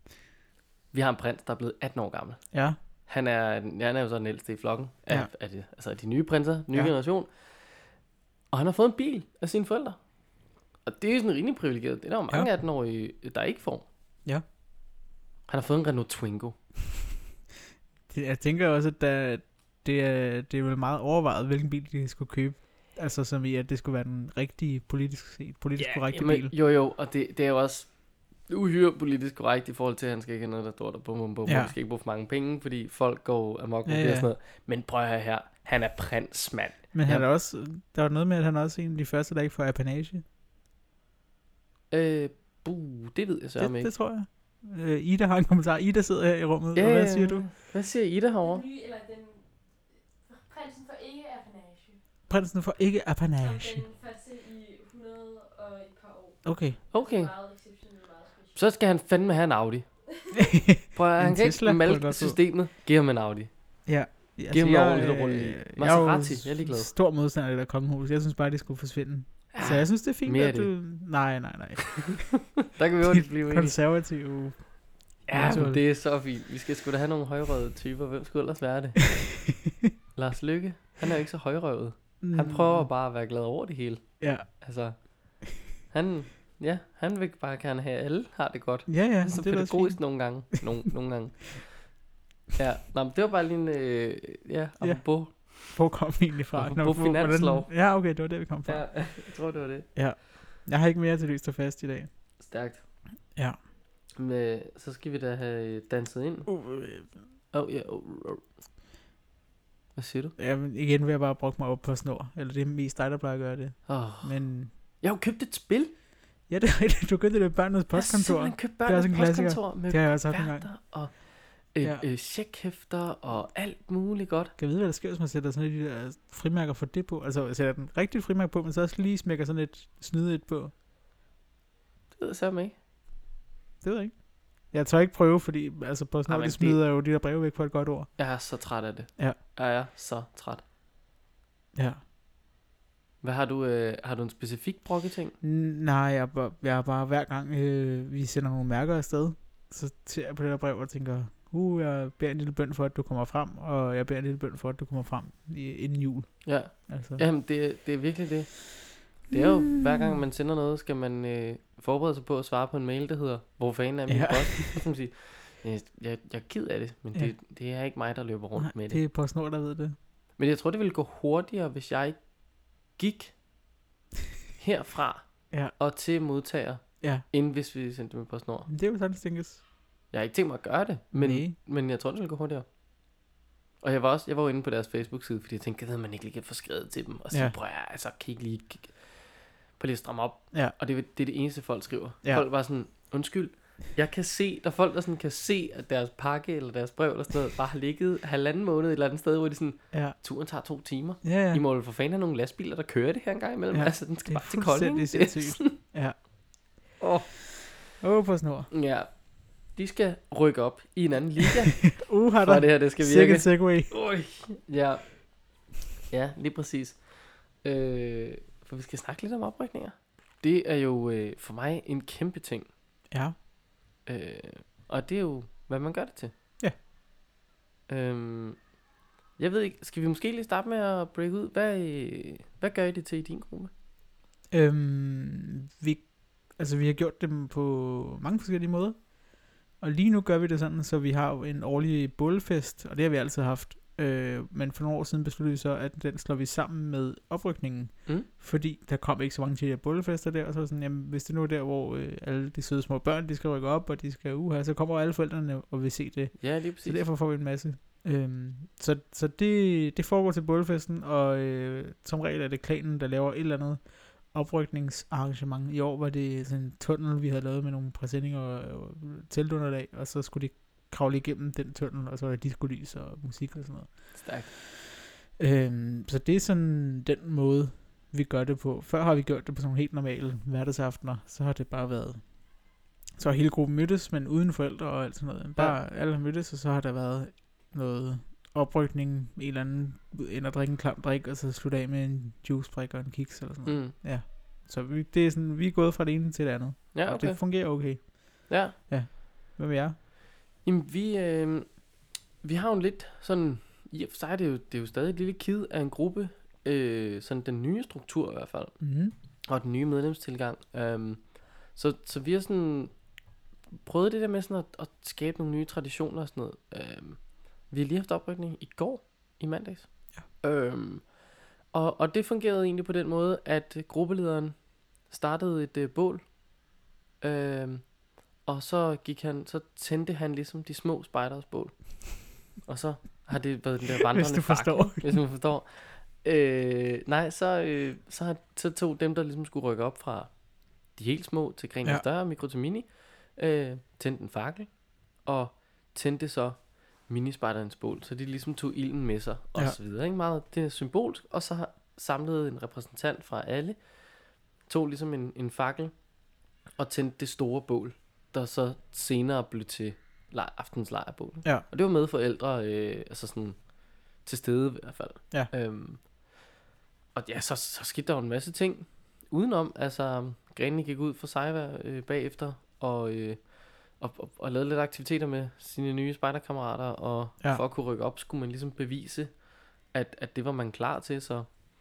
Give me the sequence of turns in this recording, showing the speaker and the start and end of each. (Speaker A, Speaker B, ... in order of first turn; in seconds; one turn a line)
Speaker A: 0.9-2.4
Speaker B: 2.5-2.8
Speaker A: 3.1-7.9
Speaker A: 8.5-10.0
Speaker A: 10.8-13.9
Speaker A: 15.5-16.6
Speaker B: 18.1-26.5
Speaker A: 25.8-27.9
Speaker A: 28.4-37.3
Speaker B: 31.4-31.7
Speaker B: 33.9-34.3
Speaker B: 36.9-40.2
Speaker A: 41.9-43.9
Speaker B: 43.6-47.5
Speaker A: 46.7-48.6
Speaker C: 48.4-52.0
Speaker B: 52.3-53.8
Speaker C: 53.4-58.7
Speaker B: 56.4-56.8
Speaker A: 56.9-57.3
Speaker A: 58.5-59.9
Speaker C: 60.1-60.4
Speaker B: 60.4-62.4
Speaker A: 60.9-63.5
Speaker B: 63.9-72.6
Speaker A: 64.5-66.9
Speaker A: 69.5-70.7
Speaker A: 72.1-73.8
Speaker B: 73.1-75.8
Speaker A: 75.3-79.4
Speaker A: 80.2-91.9
Speaker B: 82.2-82.9
Speaker B: 84.2-84.5
Speaker B: 88.9-90.5
Speaker A: 92.6-95.9
Speaker B: 94.8-99.1
Speaker A: 96.5-97.7
Speaker A: 98.6-99.9
Speaker B: 99.9-102.1
Speaker A: 102.4-102.8
Speaker A: 104.2-106.5
Speaker B: 106.5-107.2
Speaker A: 107.5-108.5
Speaker A: 110.0-110.4
Speaker B: 110.4-114.7
Speaker A: 113.9-115.9
Speaker B: 116.5-120.7
Speaker A: 117.9-124.5
Speaker B: 124.6-130.7
Speaker A: 132.2-132.7
Speaker B: 133.8-138.1
Speaker A: 136.3-136.8
Speaker A: 138.2-140.6
Speaker B: 141.7-142.0
Speaker A: 143.2-145.4
Speaker B: 145.4-157.2
Speaker A: 156.4-169.0
Speaker B: 159.3-160.2
Speaker B: 164.1-164.8
Speaker B: 168.6-169.9
Speaker A: 170.4-172.2
Speaker A: 172.9-173.3
Speaker A: 174.6-178.7
Speaker B: 178.7-179.6
Speaker A: 180.1-182.6
Speaker B: 181.2-181.5
Speaker A: 183.8-205.8
Speaker B: 199.9-200.2
Speaker B: 201.2-201.6
Speaker B: 203.7-206.2
Speaker A: 207.0-207.3
Speaker B: 208.0-208.7
Speaker A: 208.7-215.3
Speaker B: 211.9-214.0
Speaker A: 216.1-222.7
Speaker A: 224.0-226.3
Speaker A: 227.9-228.6
Speaker A: 229.4-233.7
Speaker B: 234.5-274.5
Speaker A: 256.4-257.0
Speaker A: 274.1-274.5
Speaker B: 275.4-282.4
Speaker B: 283.1-300.0
Speaker A: 293.6-293.9
Speaker A: 296.9-297.4
Speaker A: 298.5-298.8
Speaker A: 300.6-301.8
Speaker A: 302.4-308.8
Speaker B: 308.8-309.1
Speaker A: 309.4-312.9
Speaker A: 313.8-321.1
Speaker A: 321.7-324.6
Speaker A: 325.1-326.3
Speaker A: 327.2-327.9
Speaker A: 328.4-340.3
Speaker B: 334.1-335.2
Speaker A: 340.9-344.7
Speaker A: 345.2-353.8
Speaker A: 354.7-355.9
Speaker A: 356.8-363.6
Speaker A: 364.2-366.0
Speaker A: 367.1-379.3
Speaker A: 379.9-381.5